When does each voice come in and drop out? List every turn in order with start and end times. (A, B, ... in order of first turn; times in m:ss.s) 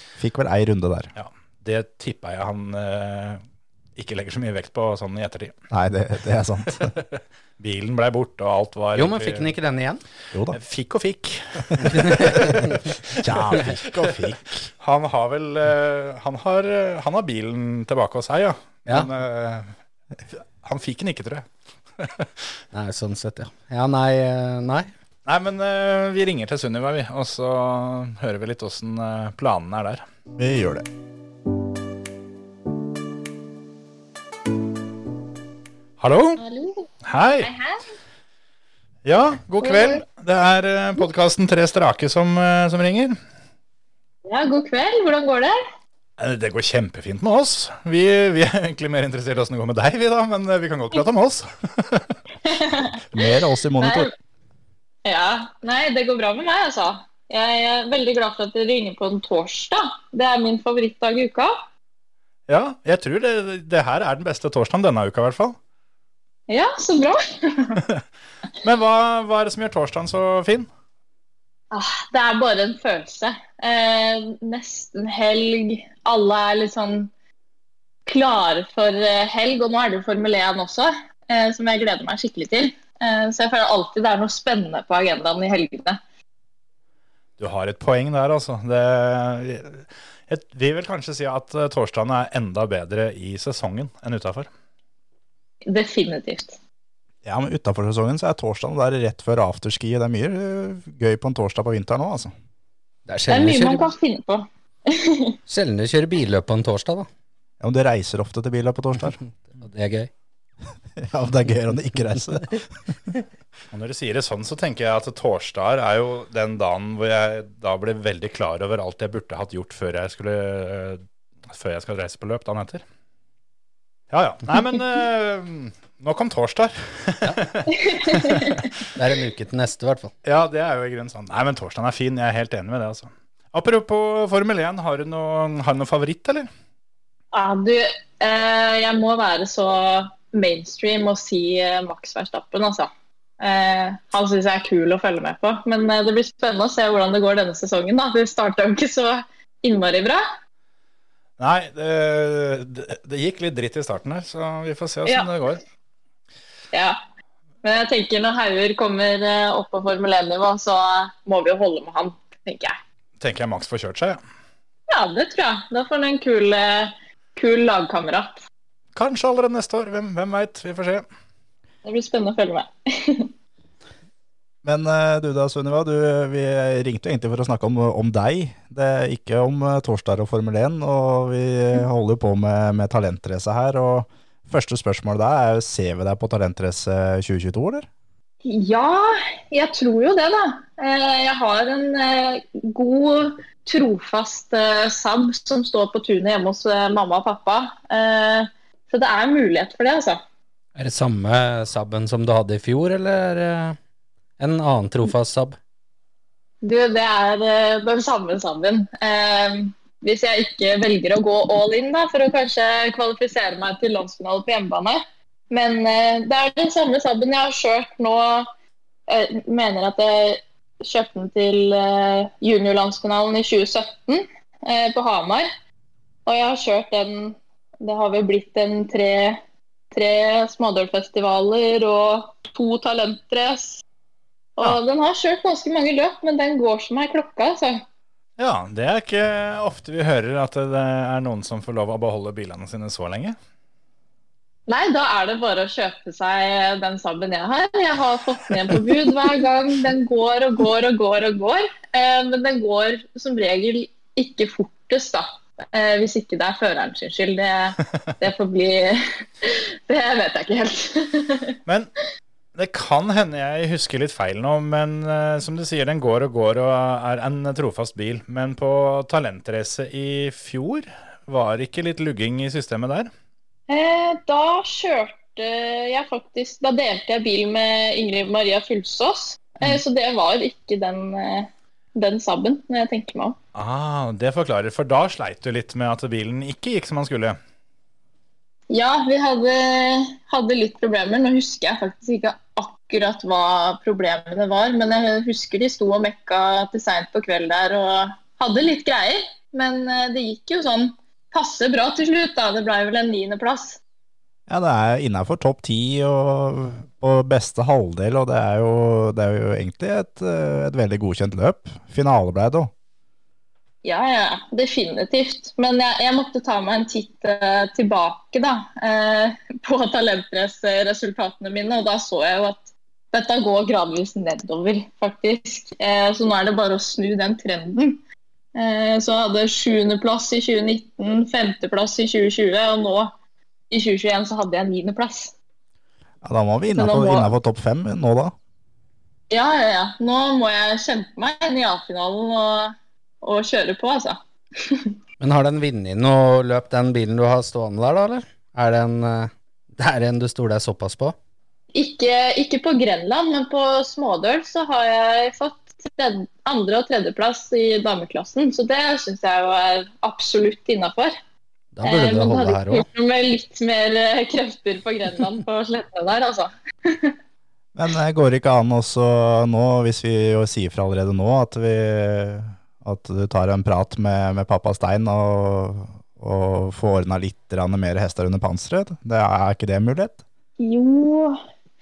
0:00.2-0:01.1 A
0:01.2-0:03.4 B
0:04.0-0:05.5 B
0:05.7-0:06.9 A
0:06.8-0:09.5 B
0:08.9-0:10.0 C
0:10.3-0:10.6 A
0:10.5-0:14.2 B
0:11.9-0:12.6 C
0:13.2-0:14.6 A
0:14.8-0:19.7 B
0:20.3-0:21.5 B
0:22.0-0:22.3 B
0:22.7-0:24.9 C
0:25.2-0:30.0 B
0:30.4-0:30.8 A
0:36.0-0:36.4 B
0:36.4-0:36.9 D
0:37.0-0:37.5 B
0:37.4-0:37.8 D
0:39.0-0:43.2 B
0:39.6-0:40.0 D
0:44.2-0:45.6 D
0:46.2-0:52.1 B
0:52.4-0:54.1 D
0:53.1-0:54.1 A
0:55.0-1:01.5 D
1:02.5-1:05.6 B
1:06.5-1:07.8 D
1:08.6-1:10.7 B
1:11.7-1:17.1 D
1:18.0-1:26.0 D
1:27.4-1:34.5 B
1:35.6-1:36.6 D
1:37.2-1:42.3 A
1:43.1-1:43.9 C
1:43.3-1:45.3 D
1:45.5-1:47.1 C
1:47.6-1:49.2 A
1:49.6-1:50.1 C
1:51.0-1:52.7 A
1:53.7-2:02.8 B
2:04.1-2:08.8 B
2:07.7-2:08.6 D
2:08.9-2:10.1 C
2:10.2-2:16.5 B
2:17.3-2:30.2 D
2:31.4-2:35.6 B
2:36.7-2:37.0 D
2:37.6-2:42.8 D
2:43.2-2:44.2 B
2:44.9-2:48.4 D
2:48.9-2:51.0 B
2:51.8-2:53.3 D
2:54.6-3:07.9 A
3:08.4-3:20.2 D
3:20.8-3:23.8 C
3:24.4-3:25.6 C
3:26.6-3:38.5 D
3:39.1-3:45.5 D
3:46.2-3:49.4 D
3:49.9-3:53.8 D
3:54.6-3:57.8 D
3:58.4-4:03.4 B
4:04.7-4:21.6 D
4:21.6-4:21.9 B
4:22.5-4:33.1 B
4:33.7-4:43.4 D
4:43.5-4:47.4 B
4:48.7-5:03.8 D
5:04.5-5:12.7 A
5:13.8-5:28.0 D
5:28.5-5:33.1 D
5:33.7-5:35.3 D
5:36.2-5:38.3 A
5:36.8-5:37.3 D
5:39.3-5:44.9 D
5:45.2-5:51.1 C
5:51.7-6:01.1 D
6:01.7-6:02.9 C
6:01.8-6:07.1 D
6:07.7-6:20.2 A
6:20.6-6:21.4 D